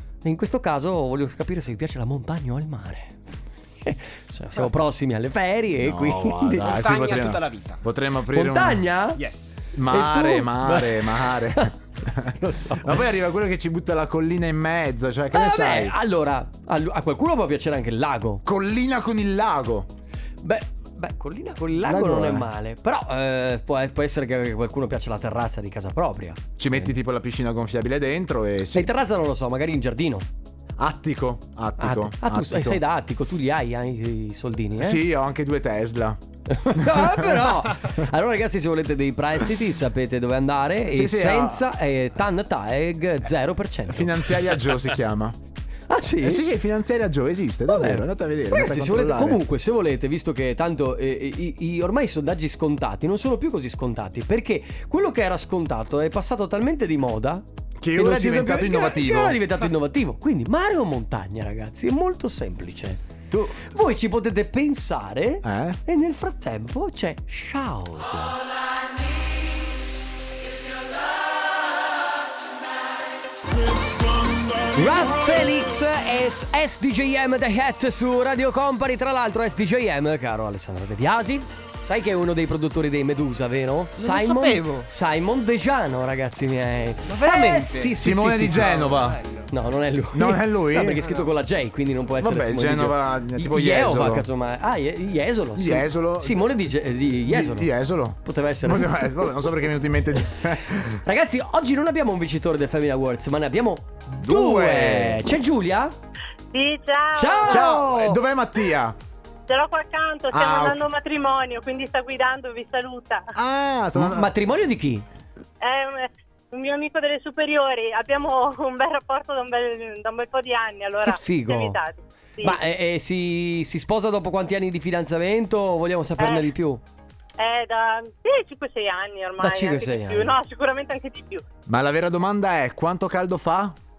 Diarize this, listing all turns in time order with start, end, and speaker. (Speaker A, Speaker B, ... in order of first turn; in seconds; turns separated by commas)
Speaker A: 0.2-3.2, Speaker A: 3.9-6.9, Speaker B: 5.8-8.8, Speaker C: 6.7-7.8, Speaker A: 8.3-9.2, Speaker C: 9.2-9.7, Speaker B: 9.7-15.9, Speaker A: 9.9-11.7, Speaker A: 12.3-13.0, Speaker A: 15.3-18.4, Speaker B: 18.4-19.9, Speaker A: 20.4-26.4, Speaker B: 21.8-22.5, Speaker B: 26.6-28.9, Speaker A: 28.7-30.3, Speaker B: 30.8-32.8, Speaker A: 31.8-35.0, Speaker B: 34.8-36.2, Speaker A: 36.5-44.3, Speaker B: 36.7-37.9, Speaker B: 40.9-41.7, Speaker B: 43.9-45.4, Speaker A: 45.9-46.4, Speaker B: 46.2-49.4, Speaker A: 47.7-68.4, Speaker B: 57.8-59.4, Speaker B: 65.4-65.8, Speaker A: 74.7-88.9, Speaker C: 84.0-84.9, Speaker C: 87.0-89.5, Speaker B: 88.0-89.2, Speaker A: 89.5-97.7, Speaker B: 90.1-91.0, Speaker C: 91.0-91.3, Speaker B: 92.2-94.3, Speaker B: 95.6-96.4, Speaker B: 97.3-101.0, Speaker A: 98.2-99.3, Speaker A: 100.8-105.9, Speaker B: 104.2-105.2, Speaker D: 106.5-107.7, Speaker A: 107.2-108.2, Speaker B: 107.5-109.0, Speaker D: 109.5-113.3, Speaker B: 110.3-110.8, Speaker B: 113.3-114.3, Speaker A: 114.0-115.0, Speaker D: 115.6-122.6, Speaker A: 121.0-121.8, Speaker A: 122.4-126.8, Speaker D: 126.2-126.5, Speaker D: 127.4-131.4, Speaker A: 129.4-130.3, Speaker B: 131.7-133.8